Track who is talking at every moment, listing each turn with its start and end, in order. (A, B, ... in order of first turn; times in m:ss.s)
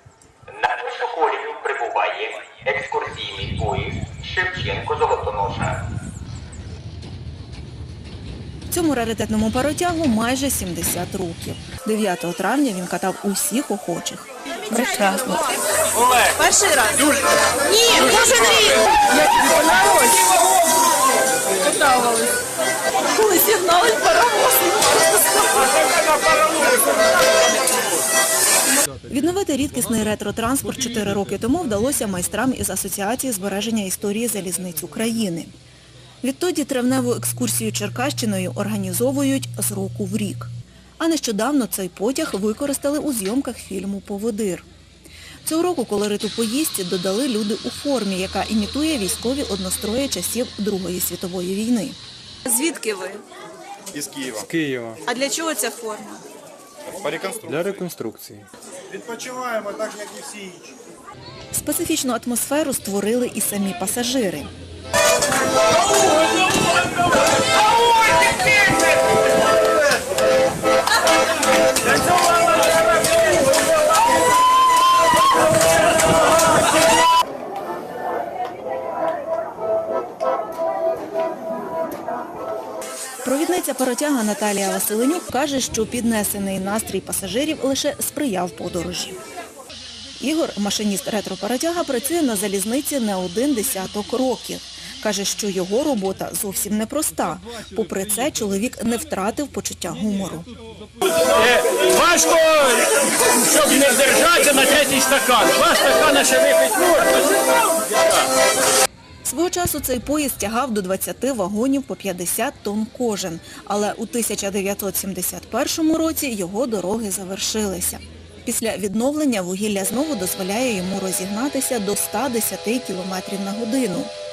0:00.6-0:05.8 A
0:08.7-0:15.5 B
0:16.2-0:20.4 C
0:21.6-0:22.4 C
0:23.1-0:26.6 C
0:29.1-0:35.5 B
0:36.2-0:44.7 B
0:45.4-0:52.0 B
0:52.4-0:53.2 C
0:53.9-0:54.4 D
0:54.3-0:55.0 E
0:55.0-0:56.2 C
0:57.0-0:57.4 D
0:57.0-0:58.5 E
0:59.1-1:00.6 D
1:01.5-1:04.5 B
1:23.2-1:29.2 B
1:30.2-1:40.5 B
1:41.4-1:47.2 F
1:49.2-2:04.1 B